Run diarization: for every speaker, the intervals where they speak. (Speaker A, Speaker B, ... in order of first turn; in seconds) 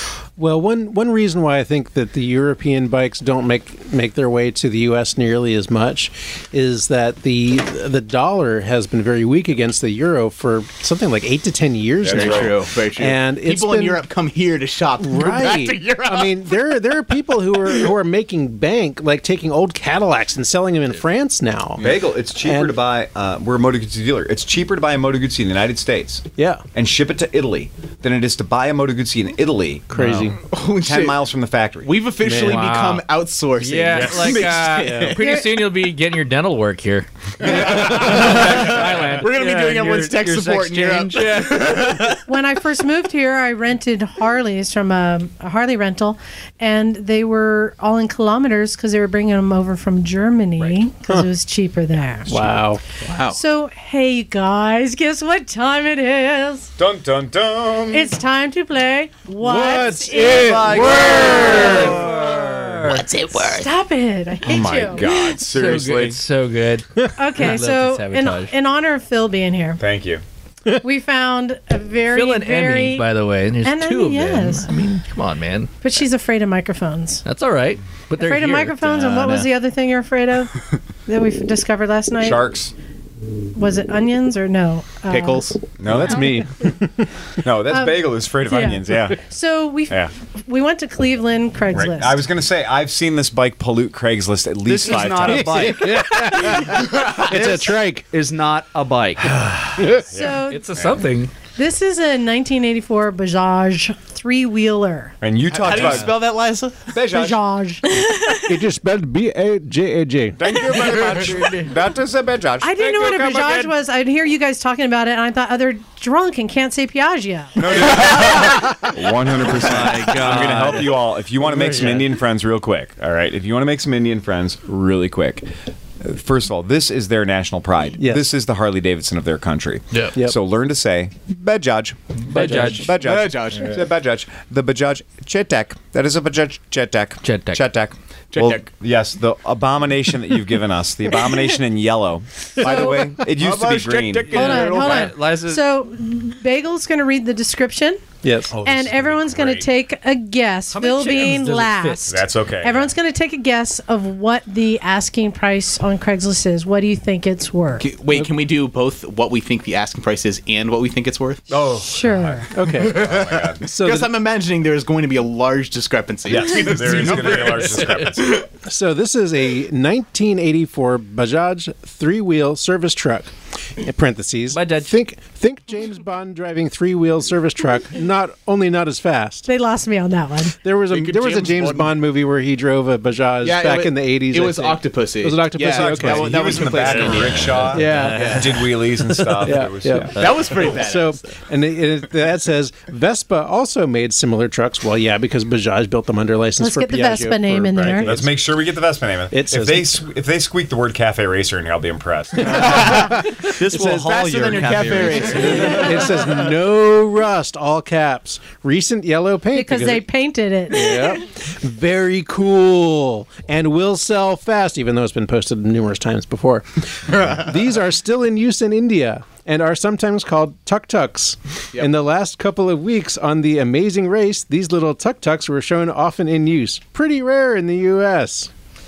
Speaker A: 0.4-14.1, 15.0-21.9, 22.4-22.8, 26.4-26.6, 29.9-30.4, 32.2-32.7, 52.3-52.8, 59.4-62.0, 85.9-87.1, 95.2-98.1, 99.8-100.1, 108.4-110.4, 121.5-122.0, 128.0-128.3, 132.4-132.9, 142.6-143.3, 148.2-148.6, 162.5-163.0, 163.7-164.1, 168.6-179.5, 180.6-186.6, 187.7-198.3, 199.3-200.0, 202.4-210.1, 210.7-228.5
Speaker B: 12.0-12.6, 21.8-29.9, 30.8-31.9, 33.9-34.2, 37.4-38.4, 56.8-58.1, 60.2-62.3, 64.5-66.2, 69.8-70.2, 82.2-82.7, 85.8-86.3, 87.4-89.2, 91.7-95.8, 99.2-101.0, 105.2-106.1, 106.9-107.4, 110.4-112.8, 117.5-125.5, 126.0-144.7, 148.5-149.7, 152.1-152.9, 161.5-163.6, 166.3-168.4, 185.6-190.2, 197.7-203.1
Speaker C: 12.1-17.9, 30.4-31.2, 31.8-35.4, 37.4-42.2, 53.0-53.4, 79.0-79.5, 85.1-85.6, 105.5-106.8, 132.9-133.8, 138.3-138.6, 143.4-144.5, 157.8-161.4, 162.7-168.4, 180.9-181.9, 183.4-188.7, 190.1-191.4, 203.8-206.1
Speaker D: 29.9-30.3, 32.4-33.0, 33.6-40.4, 41.0-42.0, 61.1-63.2, 65.5-68.5, 72.1-75.8, 77.2-79.0, 100.5-101.3, 105.7-106.0, 132.3-132.8, 137.2-137.6, 150.7-152.1, 167.4-167.9, 174.5-174.9
Speaker E: 35.2-35.6, 42.3-52.3, 53.3-56.7, 57.9-60.5, 61.2-61.8, 63.3-65.1, 67.2-69.8, 70.8-73.0, 73.6-74.7, 75.8-77.2, 78.2-82.4, 83.5-85.5, 87.7-92.2, 100.1-100.6, 101.5-105.1, 107.1-107.8, 112.6-118.2, 142.6-143.1, 144.3-157.9, 161.8-162.5, 179.4-180.6, 196.6-198.2, 209.5-211.1
Speaker F: 39.8-41.5, 94.7-99.4, 119.6-121.0, 132.3-132.8, 143.4-145.6, 187.7-188.4, 202.8-206.1